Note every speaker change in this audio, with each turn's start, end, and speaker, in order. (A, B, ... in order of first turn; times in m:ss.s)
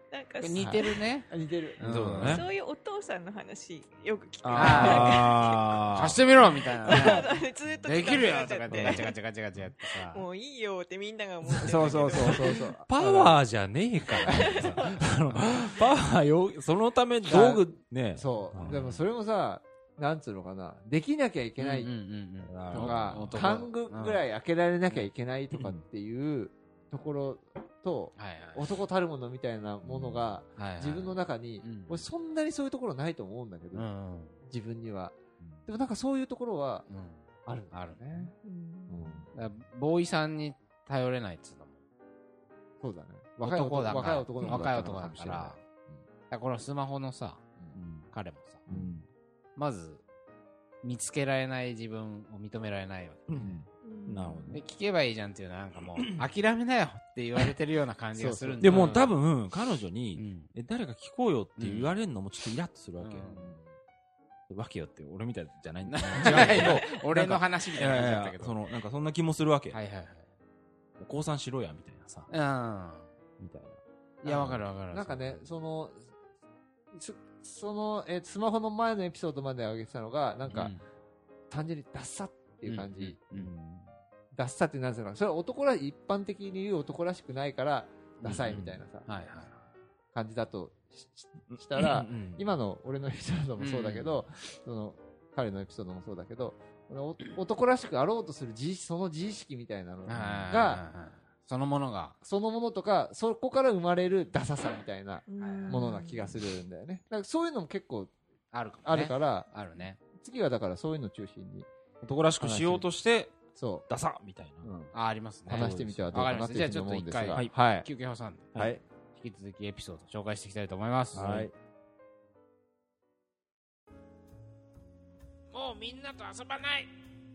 0:00.1-0:01.0 A
0:00.4-0:02.5 B
0:00.6-0:02.3 C
0:01.8-0:02.5 D
0:02.2-0:05.6 A
0:04.4-0:06.2 D
0:04.6-0:10.2 B
0:04.9-0:05.2 C
0:06.8-0:09.2 A
0:06.9-0:07.3 C
0:08.7-0:09.0 D
0:09.8-0:12.6 A
0:11.6-0:13.4 C
0:12.3-0:18.9 D
0:14.2-0:15.8 C
0:14.2-0:14.5 A
0:14.3-0:14.9 B
0:17.2-0:17.6 C
0:18.2-0:21.9 C
0:18.7-0:19.0 B
0:21.6-0:24.2 B
0:22.4-0:23.7 D
0:22.7-0:33.9 C
0:25.6-0:25.8 D
0:28.2-0:28.7 B
0:29.8-0:30.2 D
0:30.6-0:32.0 B
0:33.7-0:34.4 B
0:34.4-0:35.2 C
0:35.7-0:36.9 C
0:36.9-0:38.3 B
0:37.5-0:38.3 C
0:38.4-0:39.1 A
0:38.9-0:39.3 C
0:39.3-0:41.8 B
0:42.8-0:46.0 C
0:43.4-0:45.6 B
0:44.4-0:44.8 D
0:46.3-0:47.4 B
0:47.7-0:48.1 D
0:48.1-0:48.7 B
0:48.7-0:49.0 C
0:48.7-0:49.1 D
0:49.6-0:50.0 B
0:50.8-0:53.5 B
0:53.3-0:54.6 D
0:53.4-0:53.6 C
0:53.8-0:54.5 A
0:54.5-0:59.1 B
0:58.2-0:59.1 C
0:58.6-1:03.3 D
1:00.2-1:00.5 B
1:01.6-1:01.9 B
1:03.0-1:03.5 B
1:03.2-1:03.7 C
1:04.5-1:09.8 D
1:05.8-1:08.6 B
1:06.3-1:06.7 C
1:09.7-1:10.3 B
1:11.0-1:12.3 D
1:12.3-1:13.1 B
1:13.4-1:14.6 D
1:14.2-1:15.4 B
1:14.4-1:16.1 C
1:16.9-1:20.7 C
1:20.5-1:20.8 B
1:21.5-1:23.2 C
1:22.7-1:23.5 B
1:23.3-1:23.9 D
1:24.3-1:29.1 C
1:28.2-1:29.6 B
1:30.1-1:40.8 C
1:31.5-1:32.4 D
1:33.6-1:34.2 B
1:40.1-1:42.2 B
1:42.2-1:48.1 C
1:45.3-1:46.3 A
1:45.4-1:45.9 B
1:48.5-1:50.0 B
1:48.8-1:49.5 C
1:50.2-1:51.7 C
1:52.0-1:54.7 D
1:52.4-1:52.9 C
1:53.5-1:53.9 C
1:54.6-1:54.9 C
1:54.9-2:01.5 B
1:55.5-1:57.9 C
1:55.5-1:56.4 D
1:58.6-1:58.8 C
2:01.1-2:01.5 C
2:01.2-2:01.5 D
2:05.5-2:07.0 B